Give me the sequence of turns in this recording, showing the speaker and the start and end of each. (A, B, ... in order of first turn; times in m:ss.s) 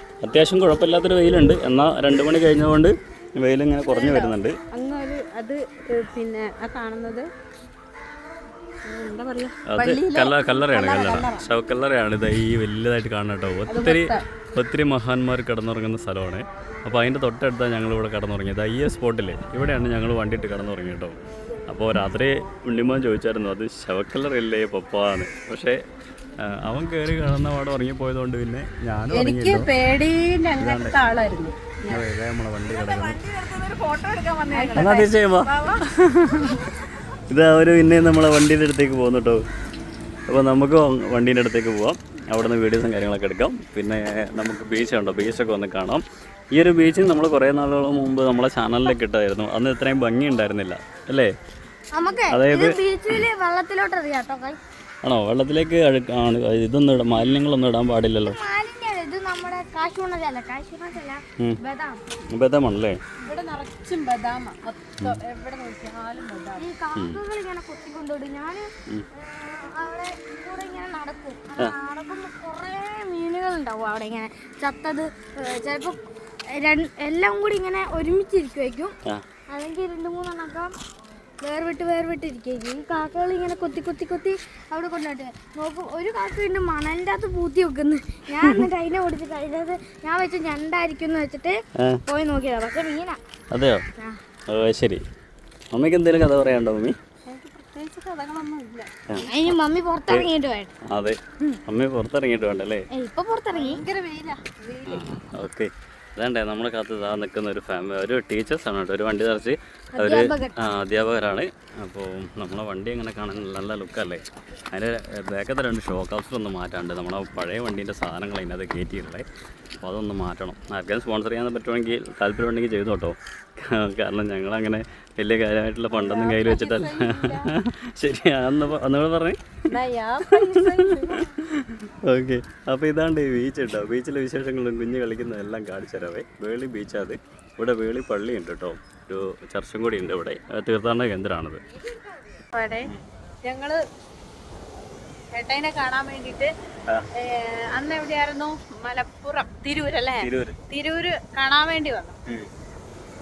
0:00.2-0:04.6 A
0:03.9-0:07.3 B
0:08.9-0:11.5 B
0:09.7-0:21.2 A
0:13.7-0:14.2 B
0:21.7-0:25.8 A
0:26.4-0:29.7 A
0:29.1-0:32.0 B
0:30.6-0:31.0 A
0:31.9-0:33.2 A
0:32.7-0:36.6 B
0:34.8-0:36.6 A
0:37.3-0:39.4 A
0:40.3-0:46.0 A
0:46.5-0:51.3 A
0:52.0-0:54.6 C
0:52.3-0:53.2 A
0:55.0-0:58.4 A
0:58.3-1:02.0 C
1:02.3-1:03.0 A
1:03.3-1:06.7 B
1:06.6-1:16.0 C
1:07.0-1:07.2 A
1:16.5-1:19.0 C
1:19.5-1:20.7 C
1:21.4-1:33.2 C
1:28.4-1:28.7 A
1:33.5-1:33.8 A
1:34.5-1:35.0 A
1:35.7-1:37.0 A
1:37.2-1:38.9 B
1:39.1-1:39.5 A
1:39.2-1:40.7 C
1:40.8-1:42.8 A
1:42.9-1:43.8 C
1:43.5-1:45.1 B
1:44.9-1:59.3 A
1:50.0-1:50.6 C
1:59.8-2:09.4 A
2:05.9-2:07.5 B
2:09.7-2:11.3 B
2:10.5-2:21.6 A
2:22.5-2:22.9 B
2:23.5-2:23.8 B
2:25.3-2:26.5 B
2:27.2-2:32.2 B
2:30.2-2:30.6 A